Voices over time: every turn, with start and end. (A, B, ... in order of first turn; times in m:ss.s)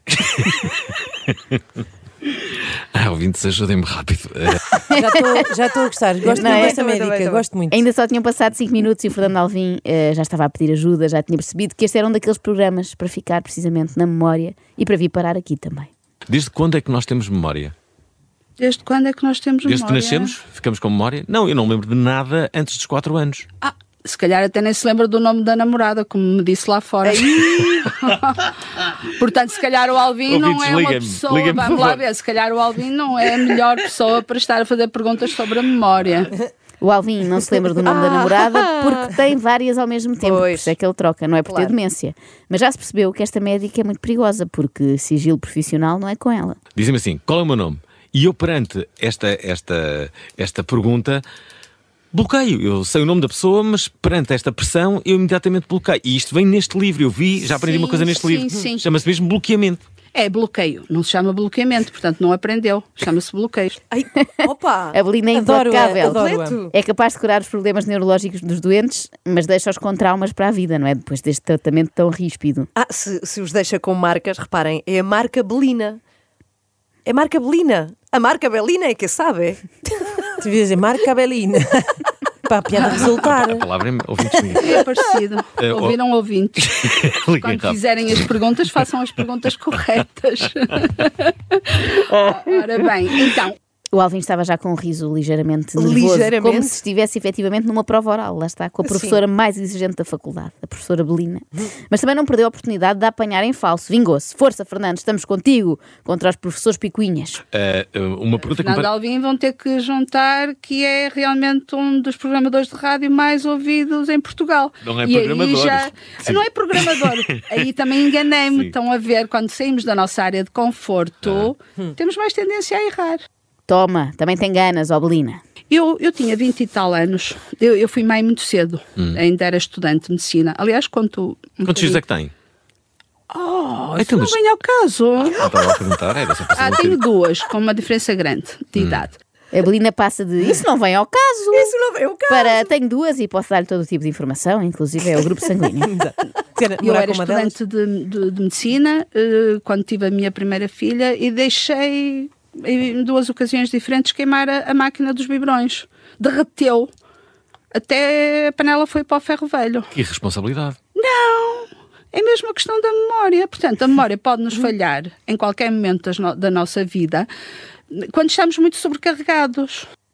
0:00.2-0:00.7 A
0:01.3-0:01.6 A
0:02.9-0:04.8 A
0:04.9-0:05.4 B
0:04.9-0:07.8 C
0:06.3-0:06.8 B
0:06.3-0:07.5 D
0:07.7-0:15.9 B
0:16.3-0:17.7 A
0:18.6-0:20.4 E
0:19.6-0:23.4 A
0:23.6-0:28.5 E
0:27.0-0:27.9 D
0:29.2-0:36.3 E
0:30.3-0:32.0 A
0:33.4-0:33.8 D
0:36.8-0:46.6 B
0:37.5-0:39.1 D
0:40.2-0:40.7 D
0:41.5-0:41.7 D
0:46.8-0:51.2 A
0:52.1-0:59.8 A
0:57.6-0:58.9 E
1:00.1-1:03.8 E
1:03.9-1:05.0 D
1:04.9-1:12.7 B
1:05.3-1:06.6 C
1:05.8-1:06.7 D
1:12.7-1:16.0 D
1:17.0-1:19.7 D
1:20.4-1:23.7 C
1:23.2-1:24.8 A
1:24.3-1:24.8 C
1:24.6-1:26.7 E
1:25.6-1:26.0 A
1:26.6-1:28.8 A
1:27.4-1:33.6 E
1:33.9-1:47.4 B
1:35.8-1:36.8 D
1:38.8-1:39.2 D
1:47.5-1:48.9 A
1:48.6-2:03.2 E
1:54.8-1:58.8 A
2:01.2-2:01.5 A
2:03.7-2:05.4 B
2:05.7-2:12.0 E
2:11.6-2:12.3 A
2:13.3-2:15.3 E
2:14.0-2:14.4 A
2:15.3-2:17.0 A
2:16.5-2:19.2 E
2:18.8-2:19.0 A
2:19.5-2:21.7 B
2:21.5-2:22.7 D
2:22.3-2:25.9 B
2:25.8-2:27.6 C
2:26.8-2:36.9 E
2:37.7-2:39.9 E
2:39.9-2:40.8 A
2:40.9-2:47.3 E
2:47.9-2:49.9 E